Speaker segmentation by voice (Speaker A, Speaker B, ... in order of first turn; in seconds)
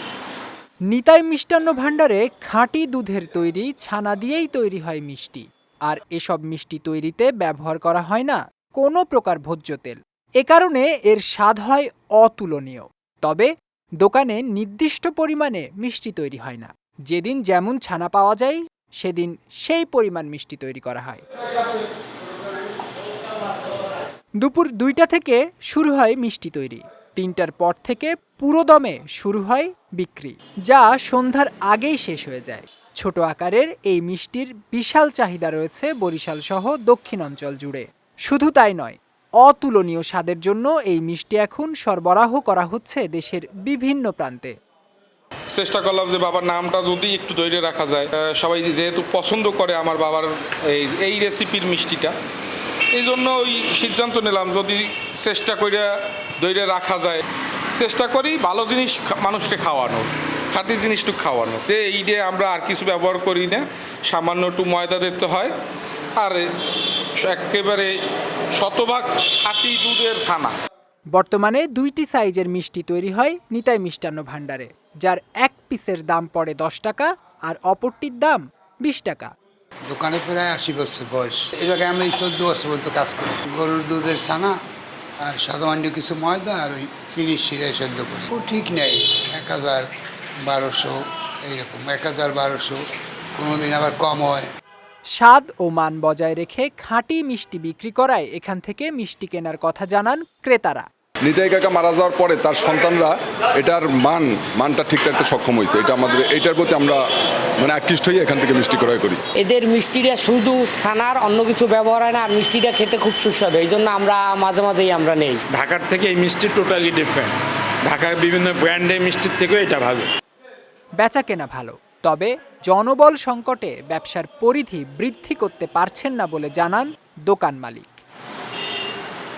Speaker A: 0.9-21.2, 24.4-44.5, 71.1-79.3, 95.1-100.9, 121.0-128.0
Speaker B: 45.5-52.1, 53.0-55.9, 56.4-57.2, 57.8-65.5, 66.2-66.5, 67.2-67.9, 68.6-70.5
Speaker C: 79.9-84.5, 85.2-89.9, 90.4-92.8, 93.4-94.5
Speaker D: 101.2-107.0, 107.6-109.2
Speaker E: 109.4-115.4
Speaker F: 115.5-120.1